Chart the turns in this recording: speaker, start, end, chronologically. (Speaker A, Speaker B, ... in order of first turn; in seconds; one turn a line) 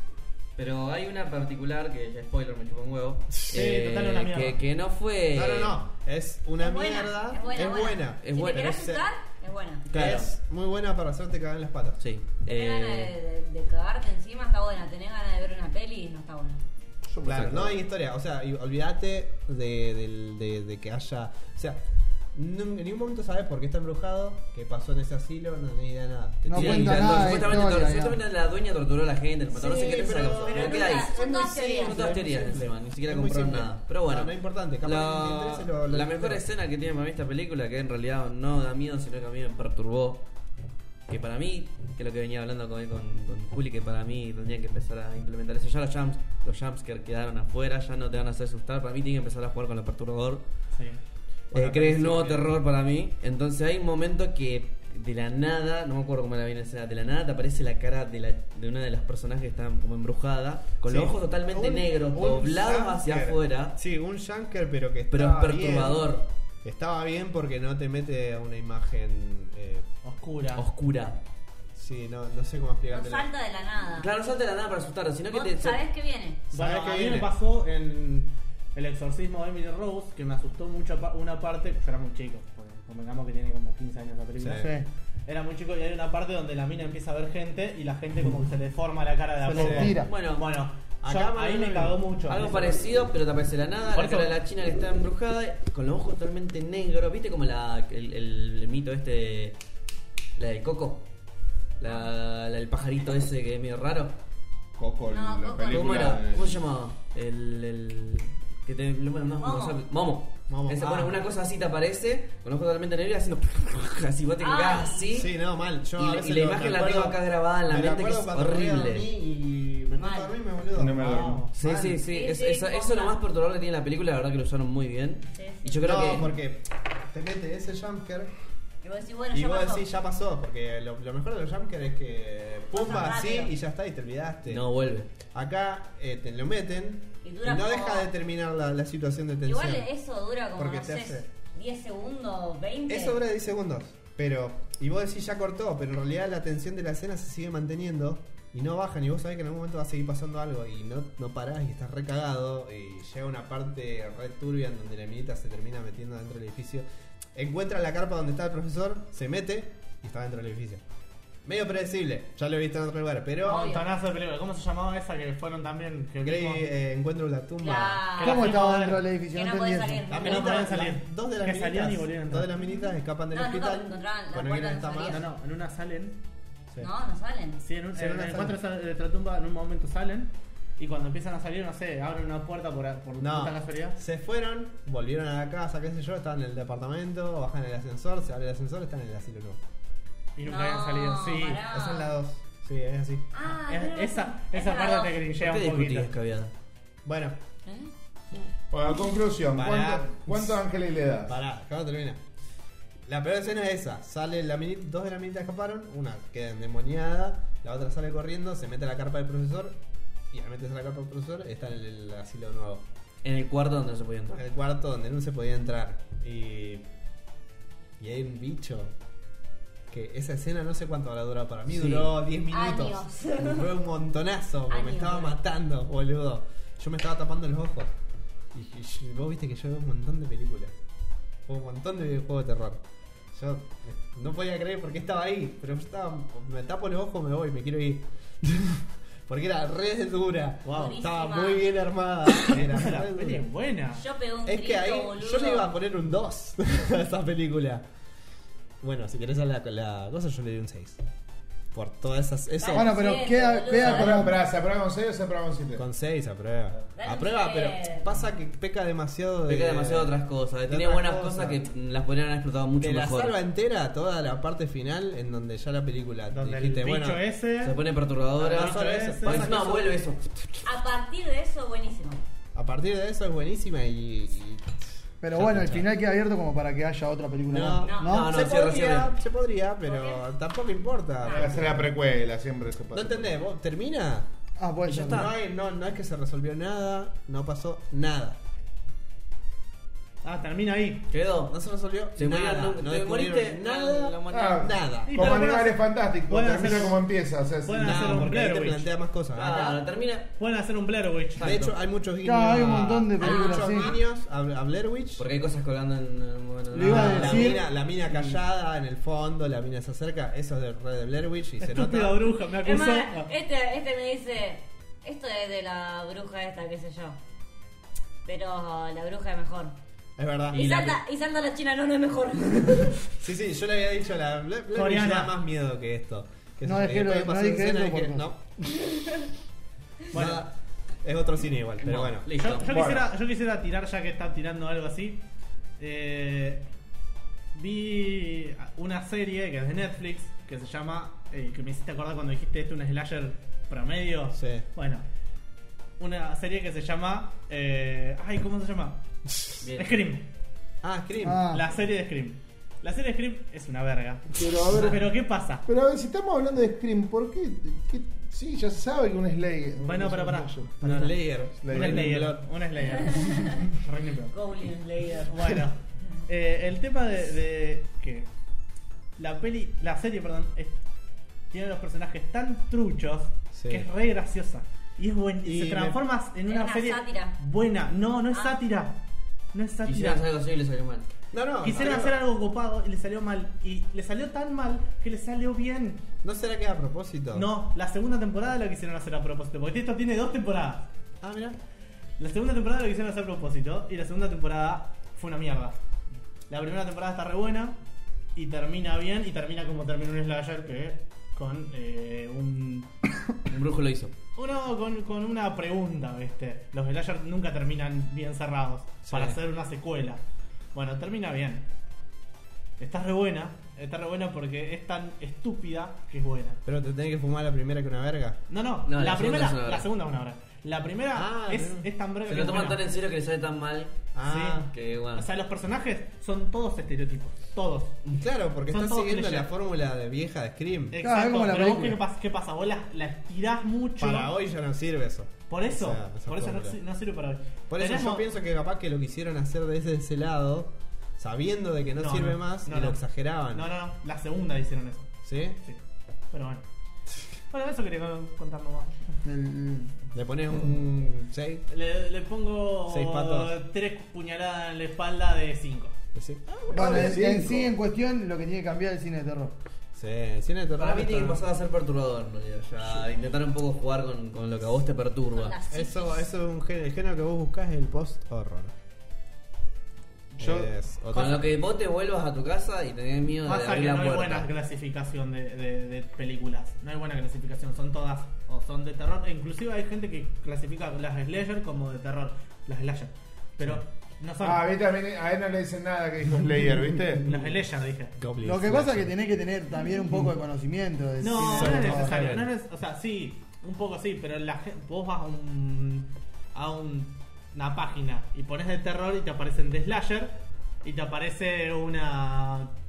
Speaker A: 0.6-5.8
Speaker B: 3.5-4.6
Speaker C: 5.3-9.0
Speaker D: 6.6-9.8
Speaker A: 8.2-8.7
Speaker A: 9.9-10.3
Speaker C: 9.9-12.0
Speaker A: 12.0-13.1
Speaker D: 12.4-16.6
Speaker E: 17.1-17.8
Speaker C: 17.2-21.8
Speaker A: 17.3-17.6
Speaker C: 22.3-27.6
Speaker F: 26.4-28.2
Speaker A: 26.5-40.2
Speaker C: 29.5-36.4
Speaker D: 30.4-32.1
Speaker A: 41.1-50.4
Speaker B: 50.7-51.0
Speaker C: 51.5-52.5
Speaker A: 51.5-63.8
Speaker E: 60.9-63.3
Speaker C: 63.7-69.9
Speaker A: 65.1-66.3
Speaker B: 70.0-70.6
Speaker A: 70.5-71.2
Speaker C: 71.7-73.3
Speaker D: 72.9-74.1
Speaker A: 74.0-75.8
Speaker D: 75.3-76.4
Speaker B: 76.5-84.7
Speaker C: 76.5-77.3
Speaker C: 84.4-84.7
Speaker F: 84.5-84.9
Speaker B: 85.2-92.8
Speaker F: 89.4-90.1
Speaker C: 89.5-89.9
Speaker A: 89.9-90.5
Speaker C: 91.0-92.0
Speaker A: 92.3-99.5
Speaker B: 93.9-94.3
Speaker A: 100.4-101.0
Speaker A: 101.8-104.1
Speaker E: 104.8-106.6
Speaker D: 105.1-106.1
Speaker A: 105.7-115.3
Speaker D: 109.4-109.8
Speaker C: 110.5-111.2
Speaker D: 114.4-115.1
Speaker C: 115.1-121.3
Speaker A: 116.0-119.1
Speaker D: 119.9-120.3
Speaker E: 120.7-121.9
Speaker B: 121.0-121.5
Speaker A: 121.5-126.3
Speaker D: 122.0-123.2
Speaker D: 125.3-126.1
Speaker C: 125.8-128.3
Speaker D: 128.8-129.8
Speaker C: 129.3-134.6
Speaker D: 132.7-133.5
Speaker A: 134.4-135.1
Speaker C: 135.3-139.9
Speaker D: 137.2-138.1
Speaker D: 139.4-143.2
Speaker C: 140.6-141.3
Speaker C: 142.9-160.8
Speaker C: 161.4-163.8
Speaker B: 163.4-166.7
Speaker D: 163.4-163.9
Speaker C: 166.2-168.1
Speaker D: 167.6-168.5
Speaker B: 168.1-169.0
Speaker F: 168.2-170.2
Speaker D: 169.3-170.8
Speaker C: 170.1-175.2
Speaker B: 170.1-172.6
Speaker D: 173.3-175.2
Speaker B: 175.1-176.2
Speaker D: 176.8-177.6
Speaker B: 177.6-184.0
Speaker C: 177.9-178.6
Speaker C: 183.2-189.6
Speaker B: 190.3-191.6
Speaker D: 190.4-192.1
Speaker C: 191.7-193.3
Speaker D: 193.3-195.2
Speaker B: 193.7-196.1
Speaker A: 195.4-196.5
Speaker C: 197.0-197.4
Speaker D: 197.6-197.9
Speaker E: 198.7-201.3
Speaker C: 199.5-200.6
Speaker C: 201.2-202.2
Speaker C: 203.1-209.8
Speaker C: 210.3-212.8
Speaker A: 213.2-214.4
Speaker C: 214.3-216.8
Speaker C: 218.0-218.9
Speaker C: 219.9-227.9
Speaker A: 221.7-222.1
Speaker D: 222.5-223.7
Speaker D: 224.7-225.4
Speaker C: 228.5-230.7
Speaker C: 231.4-243.5
Speaker B: 240.7-240.9
Speaker D: 240.7-241.7
Speaker B: 242.5-244.0
Speaker D: 243.9-245.8
Speaker C: 244.4-247.8
Speaker C: 248.8-251.0
Speaker C: 251.7-252.9
Speaker D: 252.6-254.2
Speaker F: 252.7-254.3
Speaker E: 253.8-255.8
Speaker C: 253.8-254.2
Speaker C: 255.7-261.6
Speaker D: 256.9-258.2
Speaker A: 259.4-263.3
Speaker C: 262.8-267.2
Speaker B: 266.3-267.8
Speaker A: 267.6-270.2
Speaker B: 268.4-269.5
Speaker C: 268.5-270.0
Speaker D: 270.6-272.2
Speaker C: 272.5-274.8
Speaker F: 275.2-278.3
Speaker C: 275.3-275.9
Speaker C: 277.5-281.9
Speaker D: 277.8-278.1
Speaker A: 278.0-279.1
Speaker D: 279.9-280.2
Speaker E: 281.3-283.4
Speaker C: 282.9-284.3
Speaker F: 284.6-285.3
Speaker A: 284.8-285.3
Speaker C: 285.1-288.4
Speaker B: 290.2-291.1
Speaker A: 291.1-291.5
Speaker C: 291.5-295.4
Speaker A: 292.1-294.7
Speaker E: 294.3-298.3
Speaker B: 295.1-297.0
Speaker B: 297.6-298.9
Speaker C: 297.8-299.8
Speaker A: 299.3-300.3
Speaker B: 300.3-301.5
Speaker A: 301.4-301.8
Speaker C: 301.4-305.3
Speaker F: 302.2-303.9
Speaker D: 303.2-304.0
Speaker A: 305.2-307.6
Speaker F: 306.7-307.7
Speaker C: 306.8-312.3
Speaker B: 311.6-313.3
Speaker D: 312.6-317.2
Speaker D: 318.2-319.7
Speaker C: 320.2-321.0
Speaker D: 320.5-323.0
Speaker C: 323.0-328.6
Speaker B: 324.7-325.3
Speaker F: 326.6-328.3
Speaker D: 328.9-329.1
Speaker B: 330.1-330.4
Speaker C: 330.1-332.3
Speaker A: 331.8-332.7
Speaker B: 332.4-335.2
Speaker E: 332.6-333.1
Speaker B: 335.8-336.6
Speaker B: 337.5-345.0
Speaker C: 344.3-344.7
Speaker B: 346.0-349.0
Speaker A: 349.6-350.0
Speaker B: 349.7-350.2
Speaker C: 350.8-351.5
Speaker F: 351.2-351.6
Speaker B: 351.5-355.6
Speaker F: 354.4-355.0
Speaker E: 355.6-362.2
Speaker B: 359.8-360.7
Speaker C: 360.8-362.4
Speaker B: 361.7-364.3
Speaker D: 362.9-363.7
Speaker D: 364.3-365.4
Speaker B: 365.3-368.3
Speaker B: 369.2-370.8
Speaker B: 371.5-379.0
Speaker C: 373.5-373.9
Speaker C: 375.4-376.0
Speaker D: 376.4-377.4
Speaker D: 378.3-378.6
Speaker B: 379.5-380.2
Speaker A: 379.8-381.1
Speaker C: 381.3-382.2
Speaker B: 381.6-386.0
Speaker C: 386.2-387.5
Speaker B: 387.3-390.9
Speaker C: 391.2-391.6
Speaker B: 392.2-395.8
Speaker B: 396.5-397.8
Speaker B: 398.3-402.9
Speaker A: 403.5-404.1
Speaker B: 404.4-410.2
Speaker C: 409.1-409.4
Speaker B: 410.7-411.6
Speaker B: 412.8-416.6
Speaker C: 416.6-418.4
Speaker B: 418.5-422.8
Speaker A: 418.9-419.9
Speaker C: 421.1-421.9
Speaker A: 422.2-423.9
Speaker C: 424.1-424.7
Speaker B: 424.2-427.9
Speaker A: 424.7-425.3
Speaker C: 428.1-431.0
Speaker B: 428.7-429.5
Speaker B: 430.9-434.3
Speaker F: 431.0-432.0
Speaker C: 434.0-436.8
Speaker B: 435.5-438.2
Speaker C: 437.7-443.7
Speaker B: 442.0-445.1
Speaker C: 445.2-445.6
Speaker B: 446.3-446.6
Speaker B: 447.5-449.0
Speaker F: 449.2-449.9
Speaker C: 450.1-451.6
Speaker B: 451.7-456.0
Speaker C: 452.9-453.5
Speaker C: 456.1-457.7
Speaker B: 456.5-457.1
Speaker E: 456.7-457.4
Speaker F: 456.7-459.5
Speaker C: 459.9-461.4
Speaker A: 460.8-465.6
Speaker D: 465.3-466.3
Speaker C: 465.7-468.7
Speaker B: 470.4-470.7
Speaker C: 470.4-471.5
Speaker A: 471.1-474.5
Speaker B: 473.4-484.6
Speaker E: 484.4-487.4
Speaker B: 487.2-488.1
Speaker C: 488.2-489.1
Speaker F: 488.4-492.3
Speaker B: 491.2-502.7
Speaker C: 491.4-492.5